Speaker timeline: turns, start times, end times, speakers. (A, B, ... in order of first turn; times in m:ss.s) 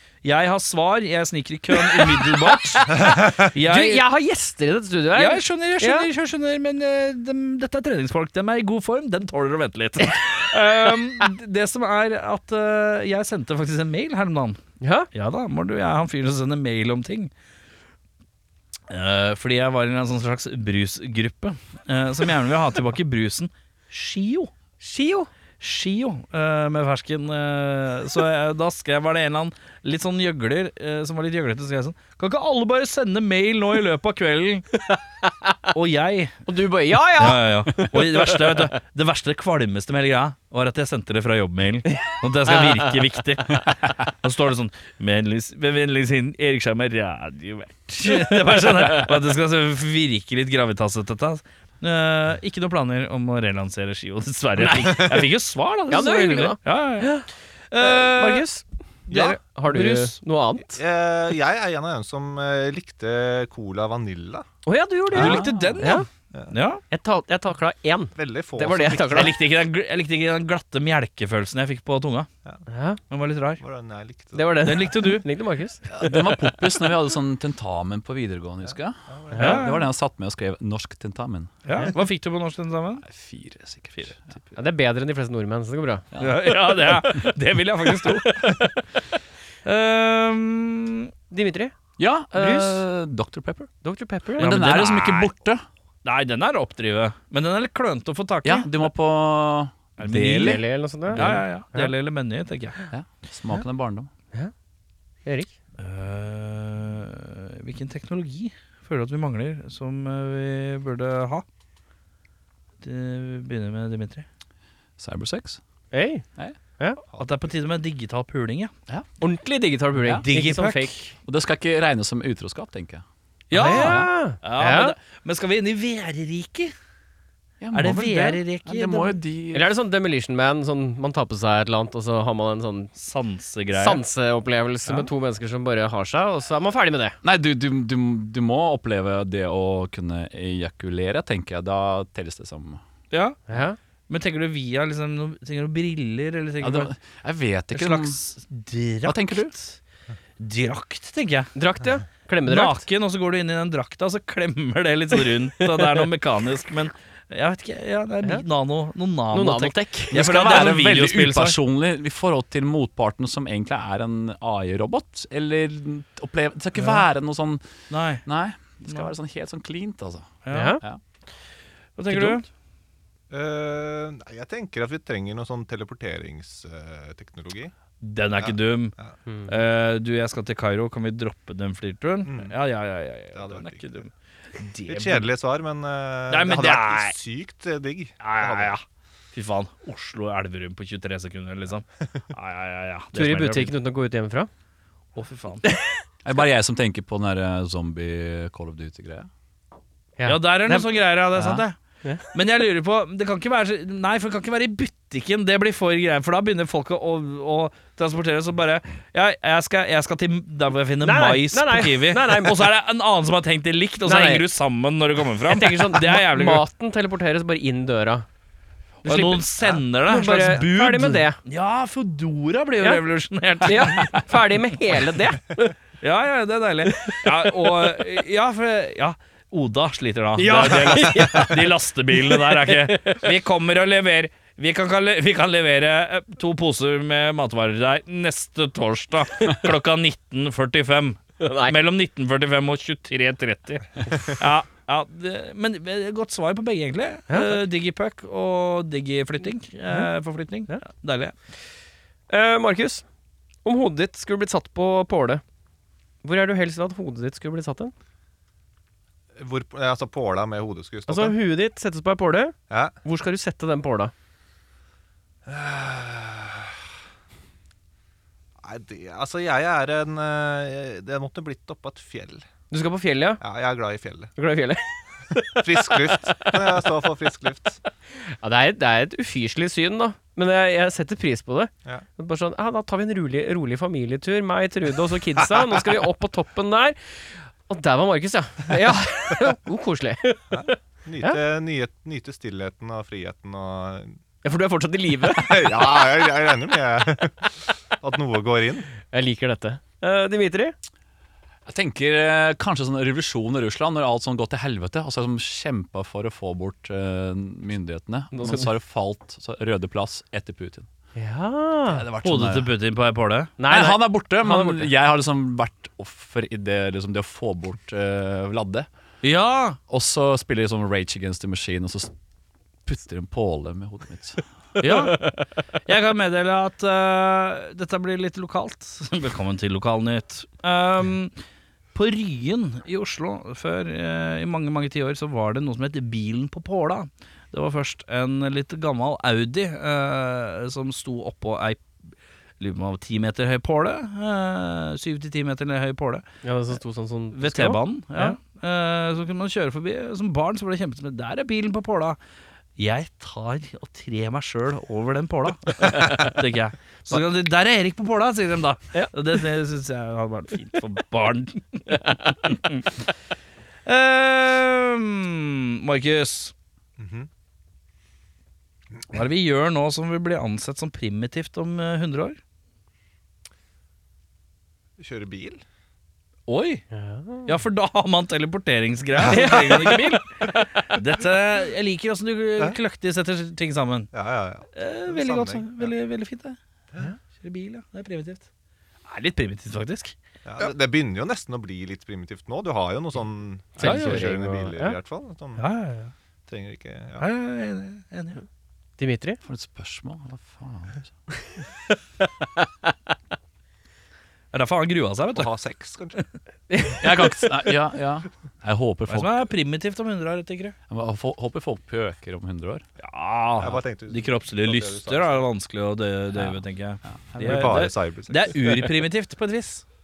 0:00.2-0:04.0 A
0:01.8-0:06.1 B
0:05.1-0:14.6 A
0:10.5-0:11.0 B
0:14.8-0:15.1 B
0:15.1-0:17.3 A
0:18.9-0:24.5 A
0:24.8-0:25.3 B
0:25.6-0:34.7 A
0:35.7-0:36.4 A
0:36.4-0:38.7 B
0:37.2-0:57.2 A
0:42.5-0:42.9 B
0:54.6-0:55.2 B
0:55.9-1:00.8 B
0:57.7-0:58.4 A
0:59.1-1:00.2 A
0:59.1-0:59.4 C
1:00.7-1:04.4 C
1:04.6-1:06.1 B
1:05.1-1:06.8 A
1:05.1-1:05.8 D
1:06.9-1:09.4 B
1:08.2-1:09.4 C
1:09.1-1:12.3 A
1:12.7-1:13.0 B
1:13.1-1:13.6 A
1:13.6-1:14.7 C
1:14.3-1:15.9 B
1:14.6-1:15.2 A
1:15.9-1:21.5 D
1:18.6-1:19.6 C
1:19.3-1:19.7 B
1:19.4-1:19.8 A
1:21.6-1:23.0 A
1:23.0-1:24.5 D
1:24.5-1:26.0 B
1:26.1-1:27.3 D
1:26.2-1:28.8 A
1:29.6-1:31.1 A
1:31.3-1:31.7 B
1:32.0-1:33.7 D
1:32.3-1:32.8 B
1:33.8-1:34.6 B
1:34.4-1:35.3 A
1:34.4-1:35.6 D
1:36.0-1:38.7 A
1:38.4-1:41.4 D
1:40.0-1:42.8 A
1:40.4-1:41.9 B
1:42.9-1:44.1 D
1:45.2-1:45.5 B
1:45.8-1:51.4 A
1:52.8-1:54.2 A
1:55.0-1:55.6 D
1:55.9-1:56.2 B
1:57.1-1:57.5 C
1:57.2-1:58.7 A
1:59.2-2:01.1 B
2:00.2-2:01.0 A
2:01.2-2:03.0 D
2:03.5-2:06.7 A
2:03.5-2:04.9 B
2:03.5-2:04.1 D
2:07.6-2:09.7 D
2:07.7-2:09.1 A
2:09.5-2:13.0 B
2:13.0-2:14.0 A
2:13.7-2:17.2 B
2:17.2-2:22.8 D
2:23.1-2:23.4 A
2:23.5-2:23.8 B
2:24.1-2:26.9 A
2:26.6-2:28.2 D
2:27.7-2:29.8 A
2:29.0-2:29.5 D
2:30.4-2:31.5 A
2:31.5-2:32.8 B
2:32.4-2:41.6 A
2:35.6-2:36.0 B
2:39.3-2:40.2 B
2:40.1-2:47.6 D
2:47.9-2:48.2 A
2:48.2-2:51.0 D
2:48.8-2:49.1 A
2:50.4-2:50.8 A
2:50.5-2:50.8 B
2:52.0-2:52.4 A
2:53.3-2:57.7 C
2:58.0-2:58.9 A
2:58.4-2:59.1 C
2:59.5-3:05.3 A
3:02.2-3:02.5 C
3:03.3-3:04.0 C
3:04.9-3:08.7 C
3:06.3-3:07.2 A
3:08.2-3:13.7 A
3:13.1-3:14.5 B
3:15.2-3:15.6 A
3:15.6-3:16.0 B
3:16.2-3:19.3 D
3:20.2-3:20.9 B
3:20.2-3:21.8 A
3:21.3-3:21.6 D
3:22.3-3:36.6 A
3:31.0-3:32.7 B
3:34.0-3:34.4 B
3:35.4-3:38.2 B
3:39.0-3:41.4 B
3:39.0-3:44.3 A
3:43.6-3:45.8 B
3:46.0-4:11.3 A
3:46.9-3:47.9 B
3:50.4-3:53.2 B
4:01.4-4:01.7 B
4:07.3-4:07.6 B
4:12.3-4:13.0 B
4:13.6-4:15.4 B
4:16.2-4:17.9 B
4:19.4-4:21.4 C
4:21.1-4:24.1 B
4:25.4-4:26.8 C
4:28.6-4:32.4 C
4:32.7-4:33.4 B
4:33.4-4:34.3 C
4:34.4-4:36.9 B
4:35.6-4:37.8 C
4:38.2-4:51.4 B
4:50.5-4:54.2 C
4:54.4-4:56.3 B
4:55.3-4:58.9 C
4:59.0-5:00.7 B
5:01.6-5:10.9 D
5:08.3-5:08.7 B
5:11.1-5:12.0 B
5:11.8-5:12.7 D
5:12.2-5:13.5 A
5:13.6-5:14.9 B
5:13.7-5:18.9 D
5:19.2-5:19.8 A
5:19.9-5:22.1 D
5:22.8-5:24.4 D
5:24.8-5:25.3 A
5:25.8-5:31.3 A
5:31.9-5:41.9 A
5:42.6-5:46.2 A
5:46.4-5:48.4 B
5:47.3-5:52.2 A
5:52.8-6:02.9 A
6:03.8-6:06.5 A
6:07.0-6:07.3 C
6:09.1-6:12.4 A
6:15.0-6:15.6 C
6:16.5-6:16.8 A
6:16.9-6:17.5 B
6:17.4-6:24.1 A
6:19.2-6:20.0 C
6:19.2-6:20.9 B
6:24.1-6:25.9 C
6:24.7-6:26.6 A
6:27.4-6:28.4 A
6:29.1-6:30.1 A
6:30.4-6:35.6 C
6:33.8-6:35.0 B
6:33.8-6:34.3 A
6:35.6-6:36.1 A
6:36.5-6:37.2 C
6:37.2-6:38.4 A
6:39.0-6:39.4 B
6:39.4-6:41.1 D
6:44.5-6:45.5 A
6:45.3-6:46.3 C
6:46.7-6:47.7 B
6:47.0-6:49.4 D
6:49.1-6:50.7 A
6:50.9-6:52.8 D
6:53.0-6:59.8 A
6:53.6-6:55.5 C
6:56.3-6:57.9 D
6:57.4-6:58.7 C